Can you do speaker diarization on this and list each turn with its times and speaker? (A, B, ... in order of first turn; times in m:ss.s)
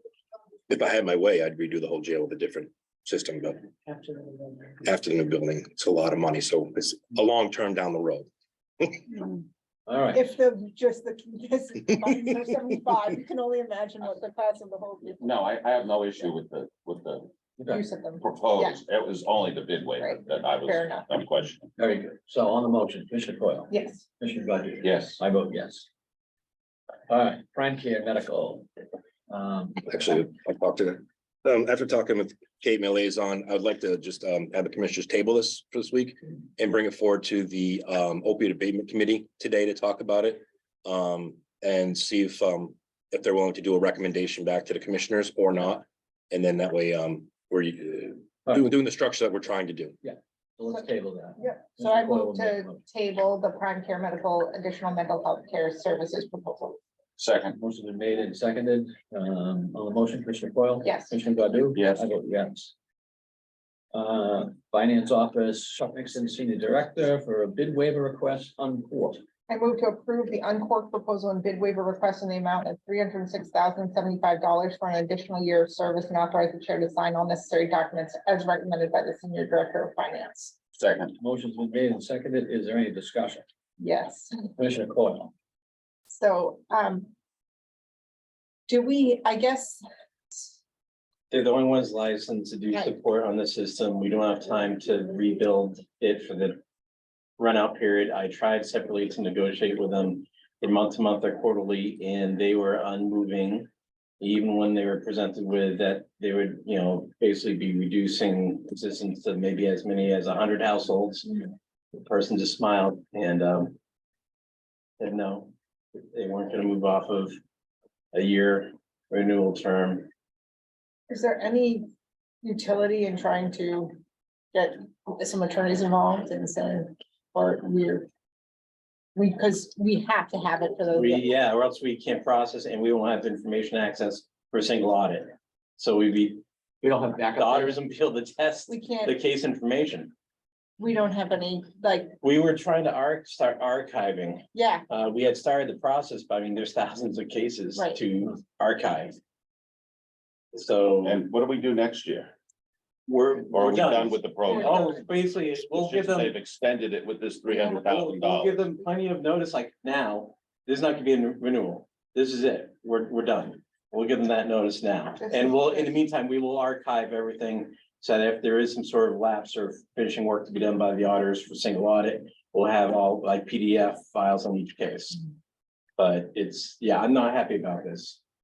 0:00.7-0:03.7 A
0:03.9-0:04.3 B
0:04.8-0:08.3 A
0:09.9-0:10.3 C
0:10.1-0:15.3 D
0:15.2-0:17.3 E
0:17.6-0:17.8 C
0:17.7-0:18.8 D
0:18.2-0:21.7 E
0:20.0-0:21.1 D
0:21.8-0:25.9 C
0:23.7-0:24.0 D
0:24.8-0:25.2 E
0:27.1-0:28.7 C
0:29.3-0:29.8 C
0:29.8-0:49.9 A
0:50.0-0:52.8 C
0:51.4-0:56.8 D
0:57.2-0:57.5 E
0:57.6-1:02.7 C
1:00.8-1:01.2 D
1:01.8-1:02.1 E
1:03.9-1:09.2 C
1:09.5-1:20.6 D
1:20.8-1:21.1 E
1:21.2-1:23.4 C
1:23.8-1:24.4 D
1:24.6-1:25.3 C
1:26.1-1:27.1 D
1:28.7-1:30.6 D
1:31.3-1:36.6 B
1:37.4-1:43.7 B
1:44.2-1:51.4 B
1:51.9-1:53.8 B
1:55.0-1:57.3 B
1:58.1-2:00.1 B
2:01.1-2:01.8 D
2:02.4-2:03.9 D
2:04.5-2:08.1 D
2:09.1-2:11.3 D
2:10.9-2:16.4 B
2:16.8-2:17.8 C
2:17.3-2:20.1 B
2:18.7-2:19.1 D
2:20.8-2:22.2 D
2:22.2-2:29.2 B
2:24.5-2:24.8 D
2:27.7-2:28.0 D
2:30.5-2:31.2 B
2:31.1-2:32.3 E
2:33.1-2:36.4 B
2:33.5-2:34.8 E
2:35.8-2:38.5 E
2:37.6-2:55.2 B
2:45.2-2:46.0 D
2:56.0-2:58.2 B